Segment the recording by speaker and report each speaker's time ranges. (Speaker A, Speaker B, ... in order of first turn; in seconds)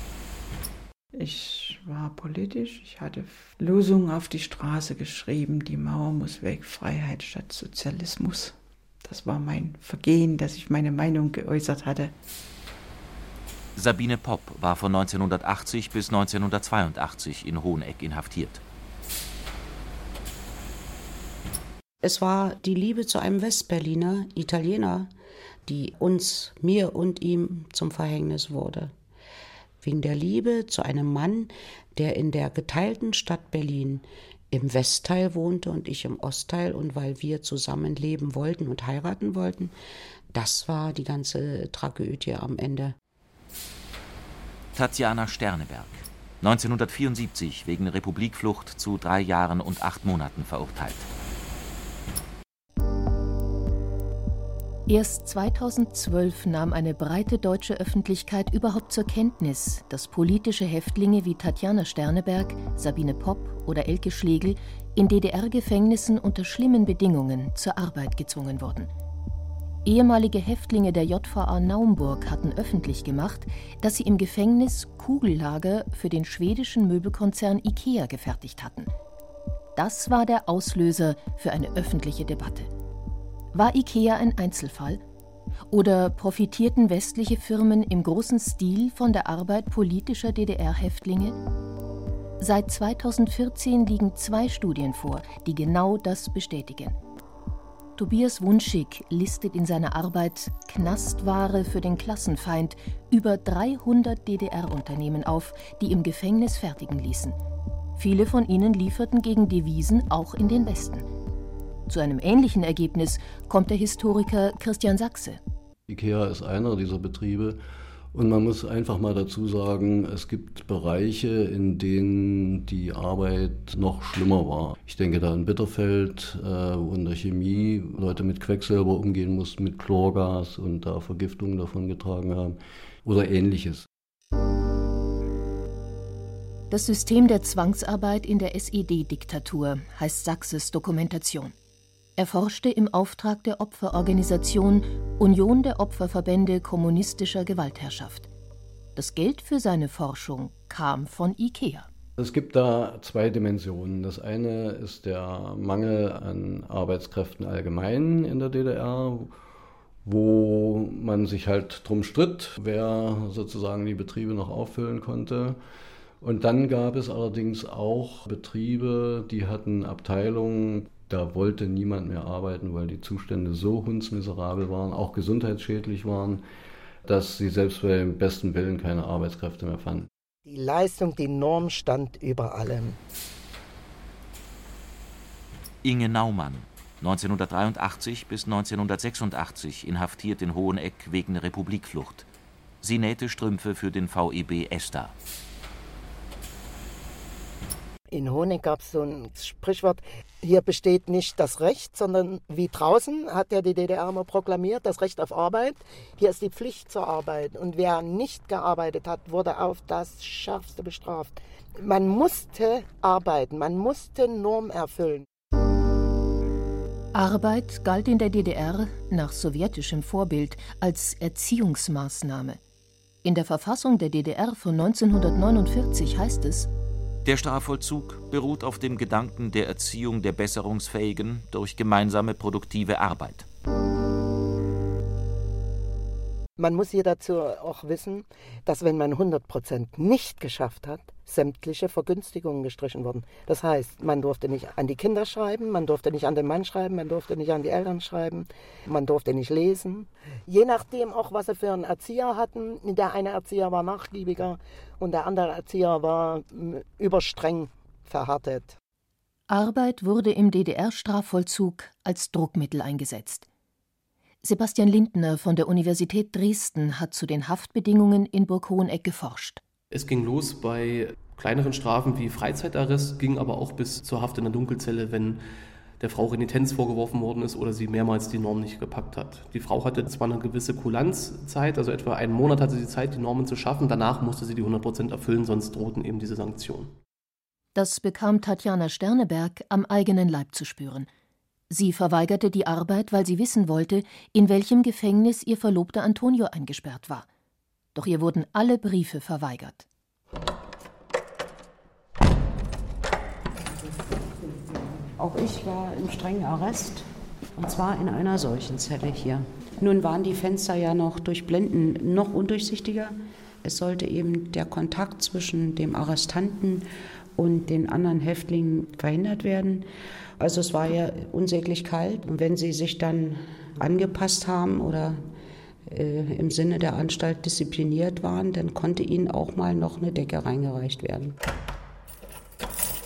Speaker A: 1.1-12.1
Speaker B: 13.8-18.6, 44.7-51.1, 185.8-192.2, 192.8-195.1, 227.2-233.4
Speaker C: 22.0-25.1, 25.6-28.9, 29.8-39.7, 40.3-42.9, 305.1-319.9, 320.4-325.2, 325.9-331.4
Speaker D: 54.9-68.9, 69.8-78.9, 79.7-82.7, 83.5-85.0, 85.7-91.4, 92.4-97.0, 98.0-107.4, 108.0-111.1, 111.9-115.4, 136.7-141.5, 142.2-148.3, 148.9-151.9, 217.1-222.6, 223.2-226.7, 259.5-263.5, 264.4-269.6, 287.7-291.1, 291.7-297.3, 297.9-299.9
Speaker E: 115.9-117.6, 118.1-133.9, 152.2-159.3, 160.0-165.6, 166.2-176.4, 177.0-180.1
Speaker F: 180.4-183.0, 198.1-215.2, 236.6-258.7
Speaker G: 269.9-275.4, 276.0-286.9